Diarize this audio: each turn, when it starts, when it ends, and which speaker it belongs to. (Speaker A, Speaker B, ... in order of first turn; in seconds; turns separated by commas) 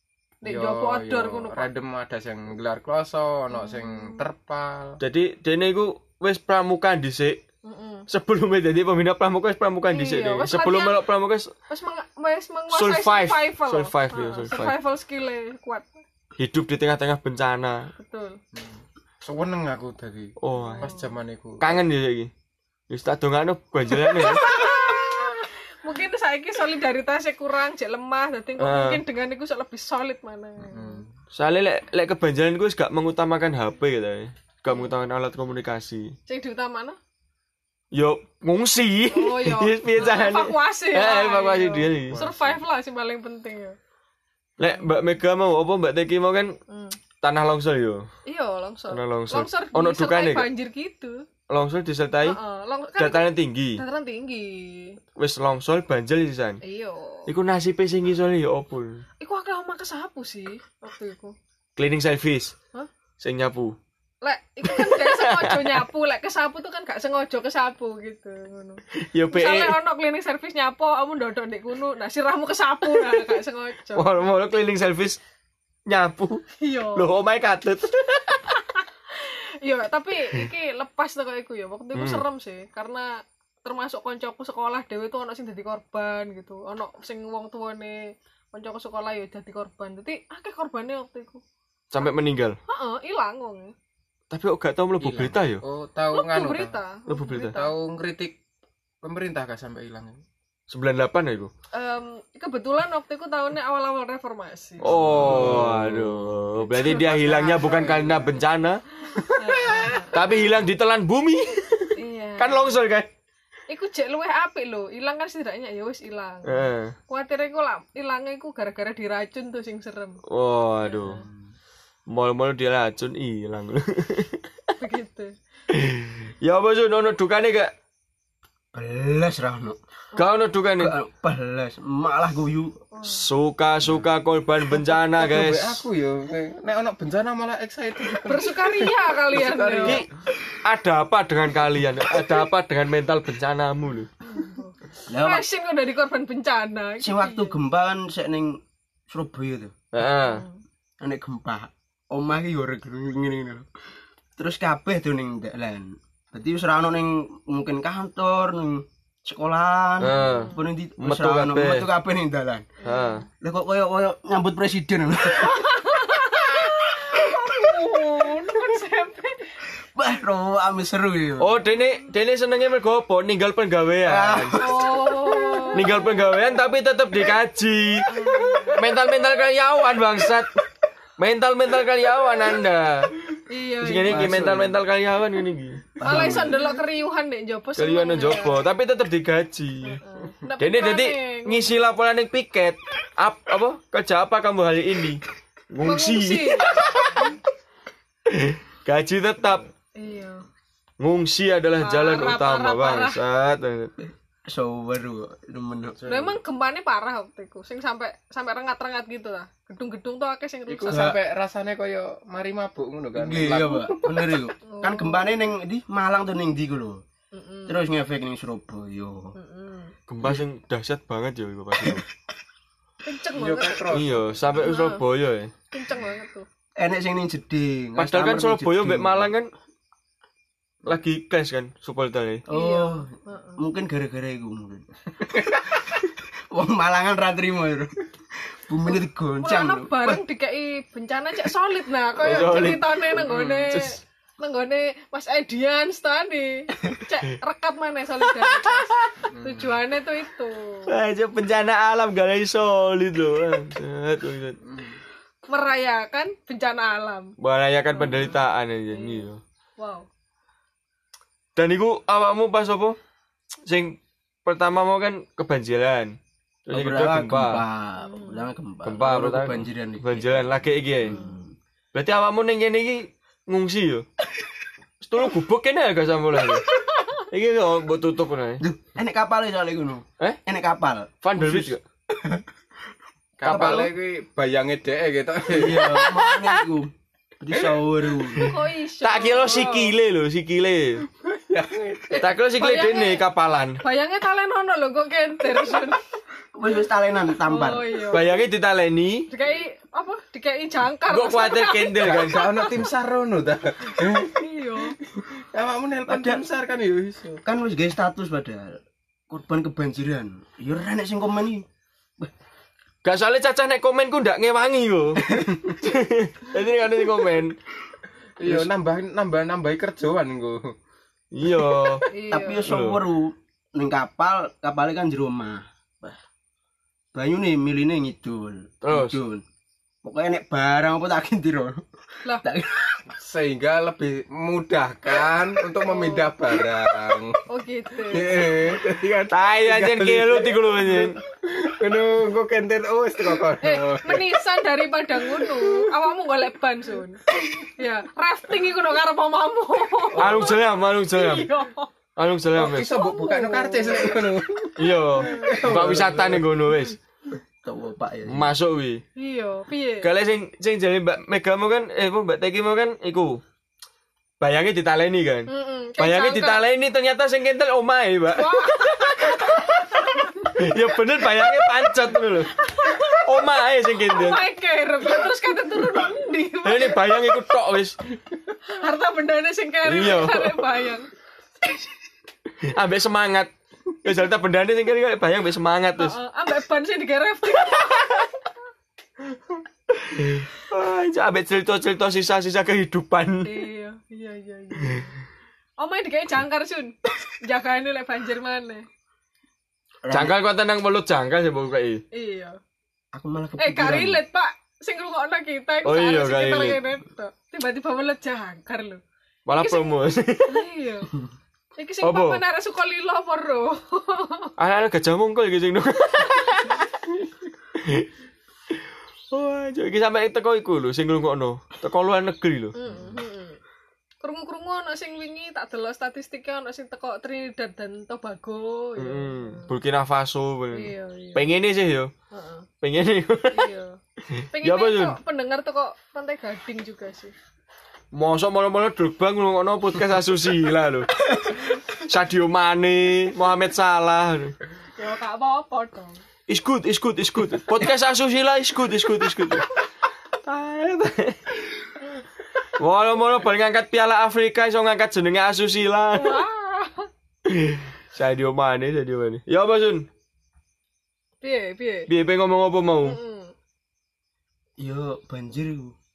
Speaker A: 0.4-1.7, Speaker B: 0.5-5.0, Speaker A: 3.5-4.2, Speaker C: 5.0-7.4, Speaker A: 7.6-8.1, Speaker C: 8.1-11.5, Speaker A: 9.9-11.1, Speaker A: 11.7-15.9, Speaker C: 12.7-14.8, Speaker C: 16.4-17.9, Speaker A: 18.0-18.4, Speaker B: 18.6-21.8, Speaker C: 20.4-20.9, Speaker A: 20.6-21.2, Speaker C: 21.6-22.3, Speaker C: 22.9-24.6, Speaker A: 24.0-31.0, Speaker C: 28.6-29.0, Speaker B: 30.6-31.1, Speaker C: 31.3-36.1, Speaker A: 34.7-34.9, Speaker A: 36.3-37.0, Speaker C: 37.9-42.2, Speaker A: 39.1-43.8, Speaker B: 42.1-42.6, Speaker C: 44.6-46.6, Speaker A: 44.7-45.0, Speaker A: 46.7-47.0, Speaker C: 47.2-48.1, Speaker A: 48.2-51.2, Speaker C: 48.9-50.5, Speaker C: 51.5-52.4, Speaker A: 52.2-55.0, Speaker C: 53.0-53.8, Speaker C: 55.2-56.6, Speaker A: 56.6-57.3, Speaker C: 57.3-59.0, Speaker A: 59.2-61.4, Speaker C: 61.8-62.5, Speaker C: 63.2-63.8, Speaker A: 64.2-74.2, Speaker C: 64.6-65.8, Speaker C: 69.0-69.8, Speaker C: 73.9-75.2, Speaker C: 75.9-78.4, Speaker A: 76.6-77.1, Speaker A: 78.5-91.4, Speaker C: 82.0-82.2, Speaker C: 91.9-92.6, Speaker A: 92.7-93.7, Speaker C: 94.3-95.6, Speaker B: 95.0-96.8, Speaker A: 96.1-97.8, Speaker C: 97.1-97.5, Speaker B: 97.5-98.3, Speaker B: 99.0-100.2, Speaker C: 100.7-101.5, Speaker A: 101.7-104.9, Speaker C: 104.8-108.8, Speaker B: 104.8-105.8, Speaker D: 105.2-105.7, Speaker A: 106.6-107.9, Speaker B: 107.2-108.4, Speaker B: 109.2-110.2, Speaker A: 109.2-110.5, Speaker C: 110.1-113.1, Speaker A: 112.0-112.8, Speaker A: 113.7-120.2, Speaker C: 116.5-117.0, Speaker C: 120.3-121.2, Speaker A: 120.8-121.2, Speaker C: 122.1-124.7, Speaker A: 124.8-125.3, Speaker C: 125.7-127.7, Speaker D: 128.7-129.8, Speaker C: 130.2-130.9, Speaker D: 130.8-132.8, Speaker A: 132.9-133.2, Speaker C: 133.0-135.8, Speaker B: 134.7-140.0, Speaker A: 138.2-140.0, Speaker C: 140.6-144.1, Speaker A: 144.2-147.6, Speaker D: 145.1-145.5, Speaker D: 147.0-148.6, Speaker D: 149.1-149.7, Speaker C: 149.9-150.4, Speaker A: 150.2-150.6, Speaker D: 151.0-153.7, Speaker D: 154.4-162.7, Speaker C: 160.0-161.9, Speaker A: 160.1-160.7, Speaker A: 162.8-163.2, Speaker C: 162.8-163.2, Speaker D: 163.4-165.7, Speaker A: 165.4-169.6, Speaker D: 169.9-171.6, Speaker C: 171.4-174.6, Speaker D: 174.0-175.7, Speaker A: 174.6-176.3, Speaker C: 175.7-178.1, Speaker A: 178.1-178.9, Speaker C: 178.7-180.5, Speaker C: 181.2-183.1, Speaker A: 183.5-184.3, Speaker C: 183.8-186.4, Speaker D: 184.0-184.8, Speaker D: 186.0-186.8, Speaker A: 186.0-188.6, Speaker C: 187.8-190.0, Speaker A: 189.8-191.8, Speaker C: 190.6-195.2, Speaker C: 195.7-197.3, Speaker A: 195.8-197.3, Speaker C: 198.3-199.7, Speaker A: 200.0-200.4, Speaker C: 201.0-203.9, Speaker A: 201.8-203.2, Speaker D: 204.0-206.0, Speaker B: 206.0-206.4, Speaker A: 206.1-211.2, Speaker B: 210.7-214.4, Speaker D: 210.9-211.2, Speaker D: 213.1-217.0, Speaker A: 214.7-215.4, Speaker A: 217.3-217.8, Speaker D: 217.7-219.3, Speaker A: 219.4-219.9, Speaker C: 220.1-222.1, Speaker A: 223.0-223.9, Speaker B: 223.3-224.5, Speaker C: 223.9-225.5, Speaker A: 224.6-225.0, Speaker A: 225.7-226.5, Speaker D: 226.8-229.3, Speaker C: 228.0-229.5, Speaker C: 230.9-232.4, Speaker D: 232.5-240.2, Speaker A: 232.5-233.6, Speaker A: 239.4-250.9, Speaker C: 242.2-244.0, Speaker B: 243.2-243.6, Speaker C: 248.4-249.1, Speaker B: 249.2-249.7, Speaker C: 250.9-254.6, Speaker B: 254.6-255.0, Speaker A: 255.5-257.3, Speaker C: 257.4-259.4, Speaker A: 257.9-258.4, Speaker A: 258.9-260.1, Speaker C: 261.6-262.9, Speaker C: 263.6-267.6, Speaker D: 266.7-271.5, Speaker A: 268.0-268.5, Speaker C: 268.8-271.2, Speaker A: 271.1-271.4, Speaker C: 271.9-274.1, Speaker C: 275.0-276.7, Speaker C: 277.3-278.6, Speaker D: 278.6-282.4, Speaker C: 281.2-281.8, Speaker B: 283.4-286.0, Speaker C: 283.4-283.9, Speaker D: 283.5-283.9, Speaker D: 285.5-288.5, Speaker A: 286.1-286.4, Speaker B: 287.5-287.8, Speaker A: 288.4-289.9, Speaker C: 289.0-291.1, Speaker B: 291.2-292.3, Speaker C: 292.1-293.8, Speaker A: 292.6-293.2, Speaker A: 293.8-296.0, Speaker D: 296.5-298.0, Speaker A: 297.4-298.4, Speaker C: 298.1-299.3, Speaker A: 299.3-302.8, Speaker C: 301.1-302.5, Speaker B: 302.0-307.4, Speaker A: 304.2-305.0, Speaker D: 306.1-306.4, Speaker D: 307.4-311.6, Speaker C: 313.0-317.5, Speaker D: 315.2-315.7, Speaker B: 318.4-320.7, Speaker C: 321.3-322.1, Speaker A: 322.1-322.7, Speaker D: 322.3-326.2, Speaker C: 322.7-323.0, Speaker D: 327.1-329.4, Speaker C: 328.8-329.2, Speaker D: 330.0-331.8, Speaker D: 332.4-333.0, Speaker B: 333.2-337.4, Speaker A: 335.9-336.3, Speaker A: 337.5-338.5, Speaker B: 338.1-344.3, Speaker C: 339.3-341.2, Speaker A: 343.6-351.9, Speaker B: 345.3-345.9, Speaker B: 350.1-350.4, Speaker C: 350.2-351.5, Speaker C: 352.1-352.9, Speaker B: 352.6-356.5, Speaker A: 352.7-354.3, Speaker C: 354.8-357.0, Speaker A: 355.2-355.6, Speaker D: 357.6-358.5, Speaker C: 358.3-359.0, Speaker A: 359.1-360.1, Speaker C: 360.0-363.4, Speaker C: 364.4-374.4, Speaker A: 365.5-366.6, Speaker A: 368.4-370.7, Speaker A: 371.5-371.9, Speaker A: 372.4-377.3, Speaker C: 376.6-377.9, Speaker A: 378.6-381.1, Speaker C: 379.9-380.7, Speaker C: 382.6-383.5, Speaker C: 384.0-386.2, Speaker A: 386.0-388.3, Speaker C: 389.9-393.6, Speaker A: 393.4-395.1, Speaker A: 395.8-398.9, Speaker D: 400.0-400.4, Speaker C: 400.1-402.0, Speaker A: 402.1-402.6, Speaker D: 403.1-404.2, Speaker A: 403.6-409.0, Speaker C: 405.9-406.8, Speaker C: 409.5-410.6, Speaker A: 409.6-411.1, Speaker A: 411.8-414.5, Speaker C: 412.0-412.4, Speaker C: 414.6-416.8, Speaker A: 416.2-416.9, Speaker C: 417.7-418.1, Speaker C: 419.3-422.8, Speaker A: 422.7-423.6, Speaker B: 422.9-423.2, Speaker A: 424.2-429.7, Speaker C: 429.0-432.1, Speaker A: 430.7-431.5, Speaker A: 432.3-432.7, Speaker C: 432.8-433.7, Speaker A: 433.5-434.0, Speaker C: 434.3-435.2, Speaker A: 434.5-437.3, Speaker C: 438.1-444.6, Speaker A: 445.0-446.2, Speaker C: 446.5-449.7, Speaker C: 450.4-451.6, Speaker C: 452.8-456.4, Speaker A: 456.1-457.1, Speaker C: 457.4-460.1, Speaker A: 461.4-462.1, Speaker C: 462.1-463.2, Speaker A: 463.0-463.5, Speaker D: 464.8-465.9